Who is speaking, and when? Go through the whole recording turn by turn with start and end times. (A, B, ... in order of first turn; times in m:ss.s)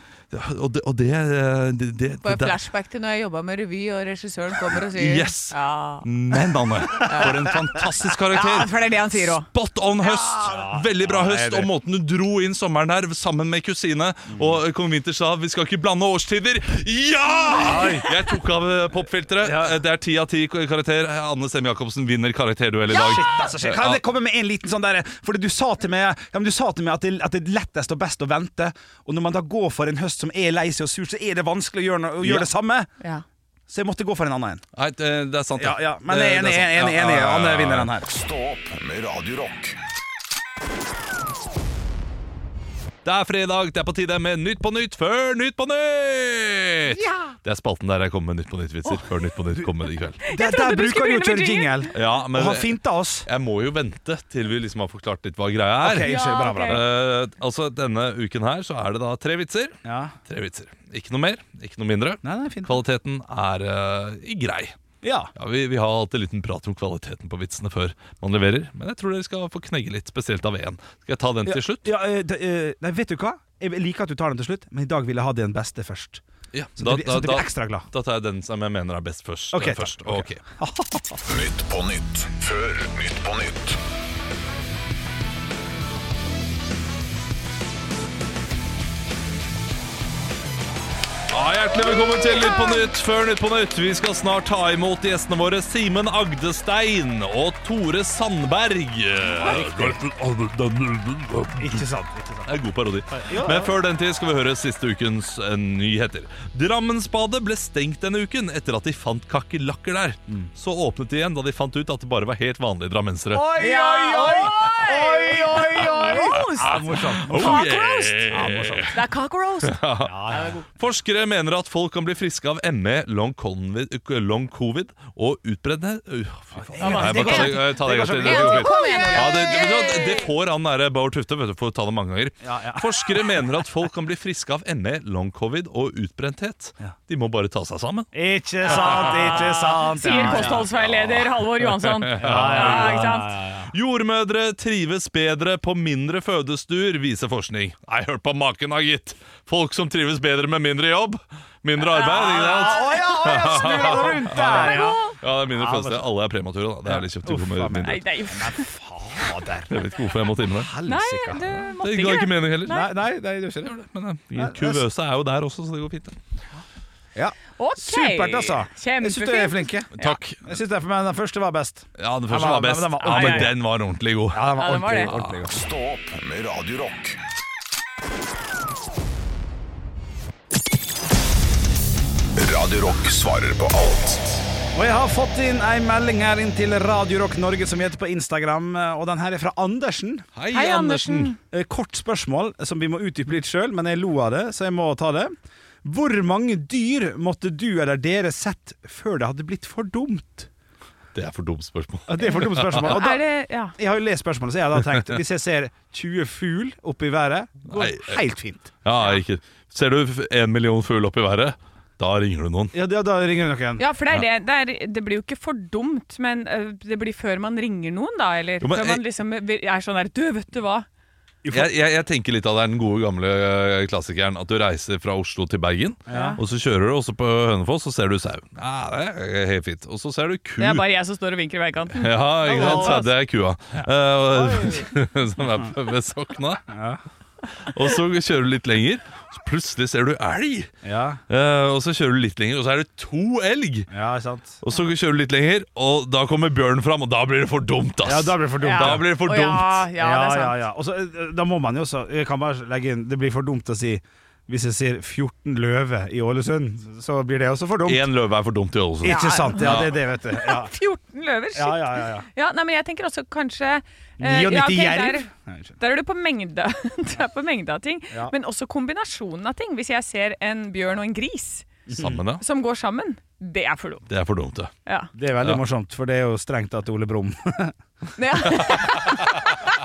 0:00.3-0:02.6 A
0:02.2-0:07.6 B
0:04.7-0:24.0 A
0:08.3-0:09.5 B
0:10.3-0:11.7 C
0:14.3-0:14.6 C
0:17.6-0:18.1 C
0:17.7-0:18.0 B
0:19.4-0:19.8 C
0:22.9-0:32.9 C
0:23.0-0:23.2 B
0:32.2-0:32.5 A
0:33.7-0:34.6 C
0:34.8-0:37.9 A
0:35.6-0:38.1 C
0:38.1-0:39.8 D
0:43.0-0:50.2 A
0:46.9-0:47.3 C
0:50.2-0:53.3 C
0:50.2-0:51.9 B
0:51.9-1:04.8 A
0:55.8-0:56.8 C
0:56.0-0:56.8 B
0:59.8-1:00.2 C
1:02.2-1:02.8 C
1:05.0-1:05.3 C
1:05.4-1:11.9 A
1:11.4-1:16.2 C
1:16.5-1:20.4 A
1:16.8-1:17.9 C
1:19.5-1:21.2 C
1:21.2-1:23.8 D
1:31.3-1:41.9 A
1:32.5-1:32.8 B
1:39.4-1:40.0 C
1:41.6-1:42.6 C
1:42.5-1:53.6 A
1:43.1-1:43.8 C
1:53.3-1:57.7 C
1:53.5-1:58.3 B
1:56.1-1:59.0 A
1:58.3-1:59.0 C
1:58.9-2:00.6 B
1:59.6-2:18.1 A
2:00.0-2:00.7 C
2:06.6-2:09.8 C
2:06.8-2:10.3 B
2:12.4-2:13.4 C
2:18.1-2:20.7 C
2:18.7-2:38.0 A
2:18.7-2:23.4 B
2:22.2-2:23.7 C
2:31.8-2:35.2 B
2:32.1-2:36.0 C
2:36.8-2:39.8 C
2:37.8-2:38.7 B
2:39.7-2:40.7 A
2:40.5-2:41.5 C
2:40.8-2:42.9 B
2:41.5-2:42.9 A
2:42.6-2:43.8 C
2:43.6-2:46.2 A
2:44.3-2:44.8 C
2:47.2-2:53.6 C
2:47.6-2:50.2 B
2:50.0-2:50.5 A
2:52.0-2:55.4 A
2:53.0-2:53.5 B
2:54.3-2:55.5 C
2:54.5-2:55.1 B
2:55.5-2:57.2 D
3:02.4-3:04.4 D
3:04.7-3:10.3 C
3:10.4-3:11.4 A
3:10.5-3:11.4 B
3:11.5-3:15.3 C
3:15.8-3:20.5 C
3:21.1-3:23.0 A
3:22.1-3:23.2 C
3:22.2-3:23.8 B
3:23.8-3:28.8 C
3:27.7-3:28.2 A
3:28.8-3:32.7 A
3:32.7-3:33.8 C
3:33.8-3:40.9 B
3:38.6-3:39.0 A
3:41.4-3:41.7 C
3:41.5-3:50.9 A
3:46.1-3:46.4 C
3:46.1-3:46.4 B
3:50.6-3:53.1 B
3:52.0-3:56.6 A
3:52.4-3:53.1 C
3:53.8-3:54.9 C
3:56.7-3:57.0 C
3:57.6-4:00.7 A
4:00.8-4:01.2 C
4:01.3-4:03.9 A
4:03.9-4:04.6 C
4:04.6-4:09.9 A
4:08.0-4:09.1 C
4:08.6-4:10.6 B
4:10.0-4:18.1 C
4:17.9-4:20.0 A
4:19.0-4:20.7 C
4:19.0-4:25.3 B
4:21.5-4:22.3 C
4:24.2-4:25.8 C
4:25.8-4:31.8 B
4:31.9-4:32.2 C
4:31.9-4:32.4 A
4:32.4-4:34.1 B
4:34.1-4:34.7 A
4:34.9-4:35.1 B
4:35.1-4:37.8 C
4:38.2-4:39.4 B
4:38.6-4:39.5 A